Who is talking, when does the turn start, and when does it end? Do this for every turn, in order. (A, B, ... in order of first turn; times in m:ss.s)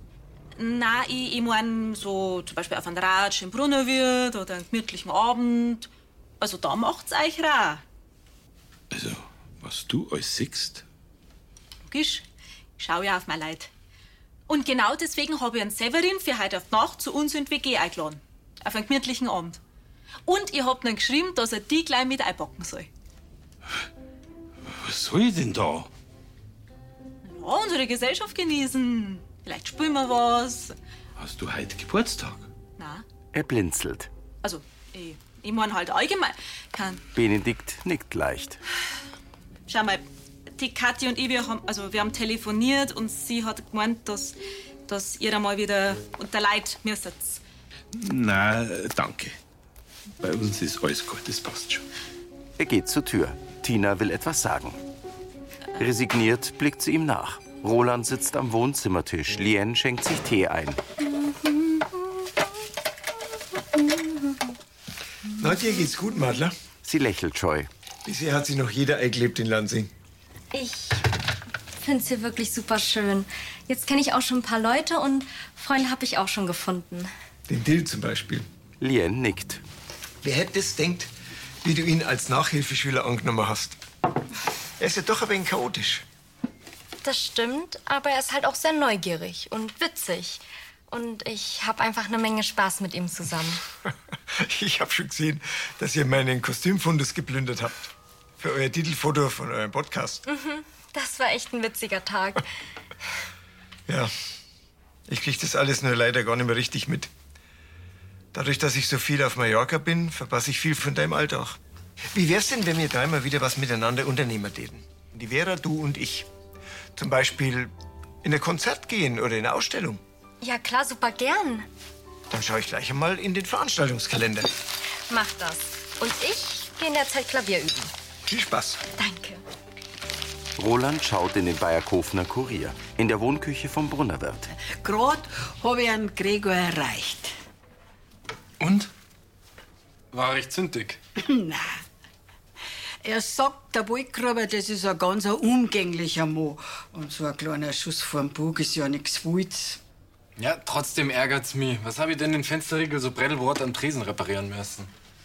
0:00.6-0:05.9 A
0:06.4-0:07.8 A
0:08.9-0:10.8 B
0:11.9-0:12.2 A
0:12.8-0:13.7 A
0:14.5-0:19.6 A
0:20.3-0:22.9 A
0:24.6-0:25.9 B
0:27.2-0:30.7 A
0:31.2-0:32.5 B
0:32.8-0:33.0 A
0:33.3-0:34.1 C
0:34.4-0:37.0 A
0:37.2-0:38.6 C
0:39.7-0:40.0 A
0:40.6-0:44.4 A
0:44.9-0:47.4 A
0:47.9-0:49.4 B
0:50.2-0:51.8 B
0:52.6-0:54.8 C
0:55.8-1:00.8 C
1:01.0-1:02.1 D
1:03.7-1:04.4 D
1:05.4-1:06.5 E
1:06.8-1:07.7 C
1:08.0-1:09.9 E
1:10.5-1:11.1 D
1:11.8-1:17.1 D
1:17.5-1:18.5 E
1:18.8-1:19.6 C
1:20.2-1:21.1 E
1:21.6-1:23.8 E
1:24.8-1:26.0 E
1:27.0-1:33.6 D
1:34.4-1:40.2 E
1:40.3-1:42.4 D
1:45.1-1:47.1 E
1:48.3-1:51.6 E
1:52.1-1:56.3 E
1:57.0-1:57.7 E
1:58.2-2:00.0 E
2:00.4-2:01.7 D
2:02.3-2:04.5 E
2:05.1-2:07.9 D
2:08.3-2:08.8 E
2:09.0-2:09.4 D
2:10.6-2:14.5 C
2:14.5-2:17.3 F
2:18.6-2:18.9 G
2:20.1-2:21.0 G
2:21.2-2:21.8 F
2:23.0-2:29.8 F
2:30.4-2:34.9 G